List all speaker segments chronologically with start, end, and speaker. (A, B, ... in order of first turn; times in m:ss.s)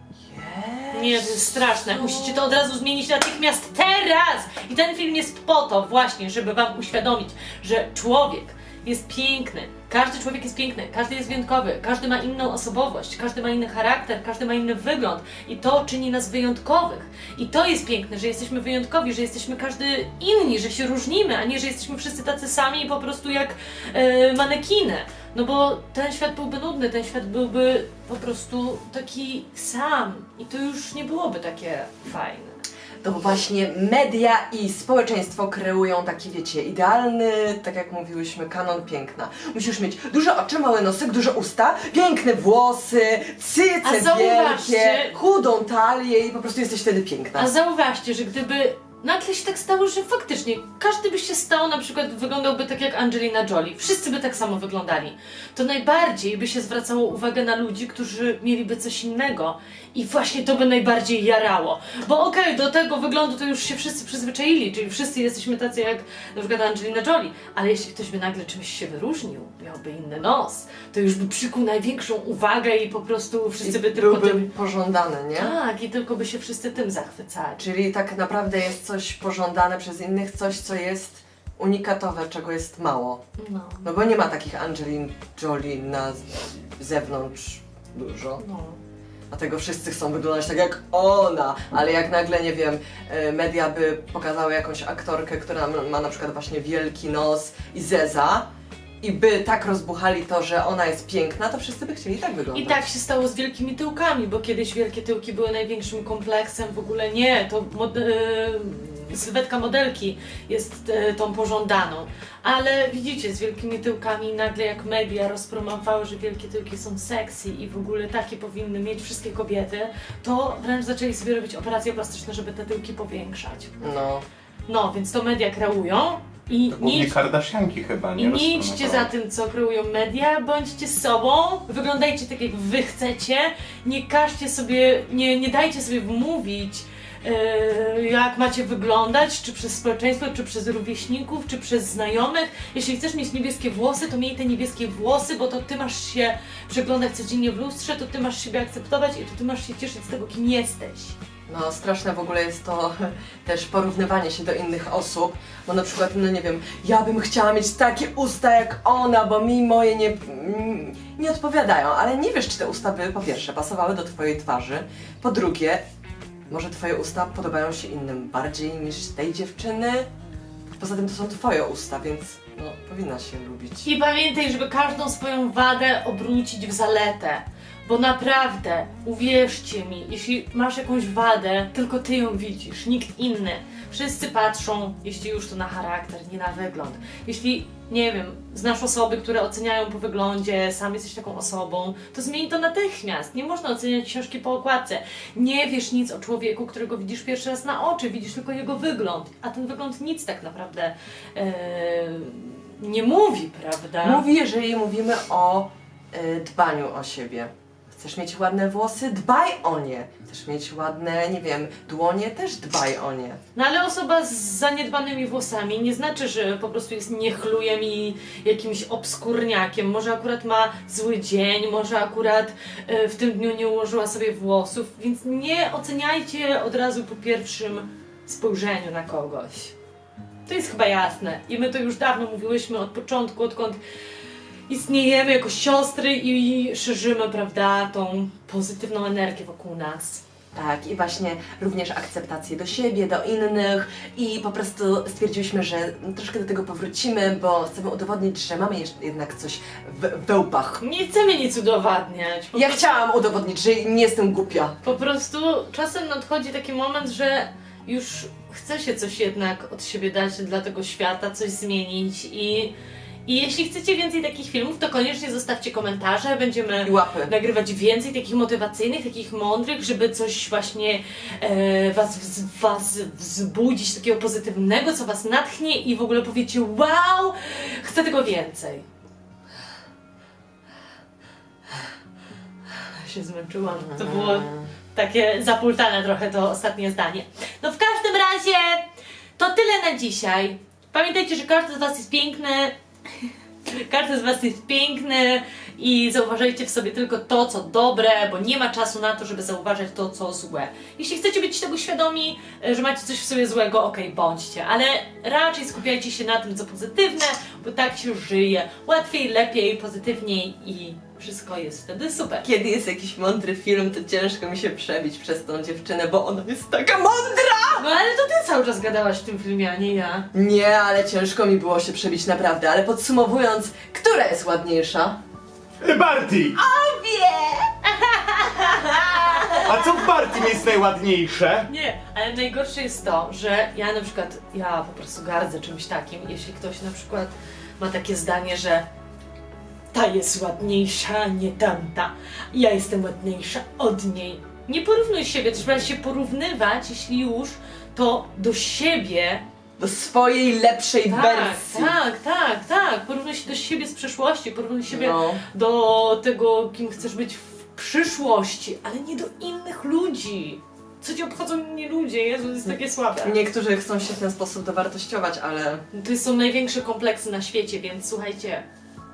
0:00.3-0:02.6 A
0:00.9-0:32.6 B
0:33.0-0:47.5 A
0:43.8-0:45.2 B
0:47.4-1:14.5 B
1:13.6-1:15.6 A
1:15.4-1:17.6 B
1:17.6-1:23.2 A
1:23.4-1:23.9 B
1:23.8-1:28.4 A
1:28.4-1:28.8 B
1:29.3-1:38.4 A
1:39.0-1:42.8 A
1:42.5-2:03.7 B
2:03.8-2:04.2 A
2:04.7-2:07.2 B
2:06.7-2:09.1 C
2:08.2-2:31.2 B
2:31.5-2:45.8 A
2:46.5-2:50.1 A
2:50.8-2:53.9 A
2:53.8-3:24.2 B
3:24.0-3:33.4 A
3:33.6-3:49.7 B
3:50.5-3:53.8 B
3:54.7-4:00.2 B
4:00.5-4:10.8 A
4:10.8-4:12.8 B
4:12.5-4:14.8 A
4:14.8-4:22.7 B
4:23.3-4:38.8 B
4:26.8-4:27.3 A
4:42.8-4:48.8 B
4:43.7-4:44.7 A
4:49.4-5:12.5 B
5:12.4-5:17.9 A
5:17.8-5:20.3 B
5:20.3-5:25.2 A
5:25.8-5:26.6 C
5:26.6-5:27.7 A
5:27.9-5:29.7 B
5:29.0-5:29.6 A
5:29.5-5:31.7 C
5:31.7-5:38.8 B
5:39.9-5:49.4 B
5:49.8-5:52.0 A
5:51.0-6:03.4 B
5:54.9-5:55.4 A
6:02.7-6:05.8 A
6:05.9-6:08.6 B